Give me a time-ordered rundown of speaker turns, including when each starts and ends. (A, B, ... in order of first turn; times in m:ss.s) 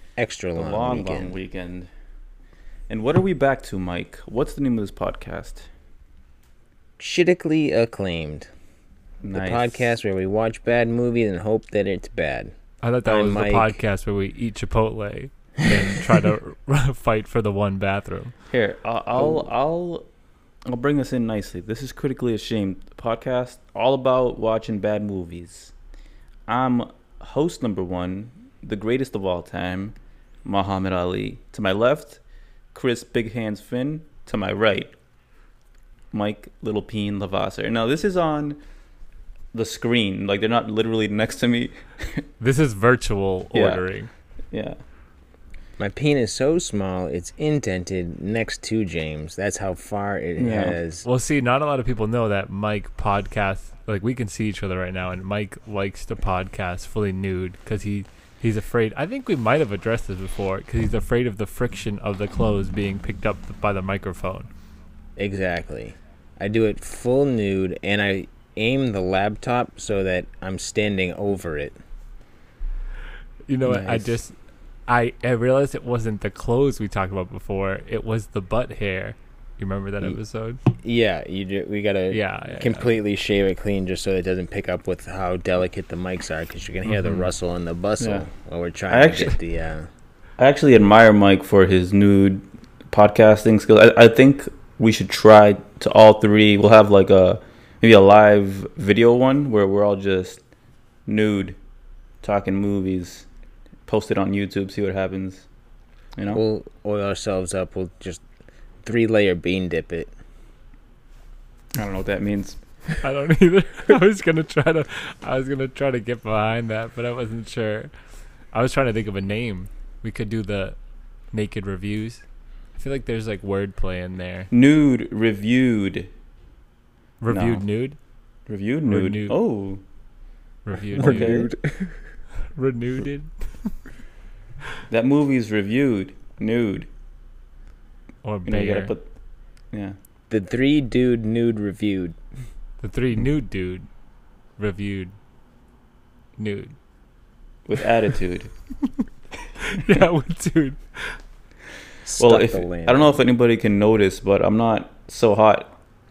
0:00.2-0:01.4 A
0:00.6-0:01.9 B
0:02.9-0:05.7 B
0:07.0-0:08.5 A
0:09.2-0:09.9 B
0:09.3-0:12.5 A
0:12.8-0:18.3 C
0:13.0-0:13.8 A
0:18.5-0:20.0 B
0:20.6-0:25.7 B
0:26.5-0:32.2 B
0:32.7-0:34.9 B
0:36.1-0:38.6 B
0:39.5-0:42.2 B
0:42.4-0:44.1 C
0:43.5-0:43.8 B
0:44.5-0:44.8 B
0:45.8-0:51.0 A
0:50.4-0:50.8 B
0:51.0-1:04.5 C
1:05.2-1:11.8 A
1:13.5-1:14.3 C
1:13.6-1:14.1 A
1:14.9-1:20.6 C
1:20.8-1:29.9 A
1:22.1-1:22.9 C
1:26.9-1:27.3 C
1:28.0-1:28.2 B
1:28.9-1:29.4 B
1:30.4-1:40.4 B
1:41.1-1:41.6 B
1:42.2-1:43.3 B
1:43.9-1:45.4 B
1:46.3-1:48.2 A
1:48.8-1:50.1 A
1:51.7-1:52.6 B
1:53.0-1:57.9 C
1:58.5-2:00.8 C
2:01.3-2:02.2 C
2:02.7-2:04.5 C
2:04.5-2:06.1 B
2:07.2-2:08.0 C
2:07.3-2:07.6 B
2:08.5-2:09.8 B
2:08.8-2:09.3 C
2:10.6-2:11.3 C
2:10.9-2:11.5 B
2:11.0-2:12.0 A
2:12.5-2:13.7 C
2:14.9-2:16.9 B
2:18.2-2:18.9 C
2:18.4-2:19.0 B
2:20.3-2:22.2 A
2:22.8-2:23.9 C
2:24.6-2:25.1 C
2:26.4-2:26.7 C
2:27.6-2:28.5 B
2:29.6-2:31.1 C
2:32.0-2:33.2 A
2:32.2-2:35.7 B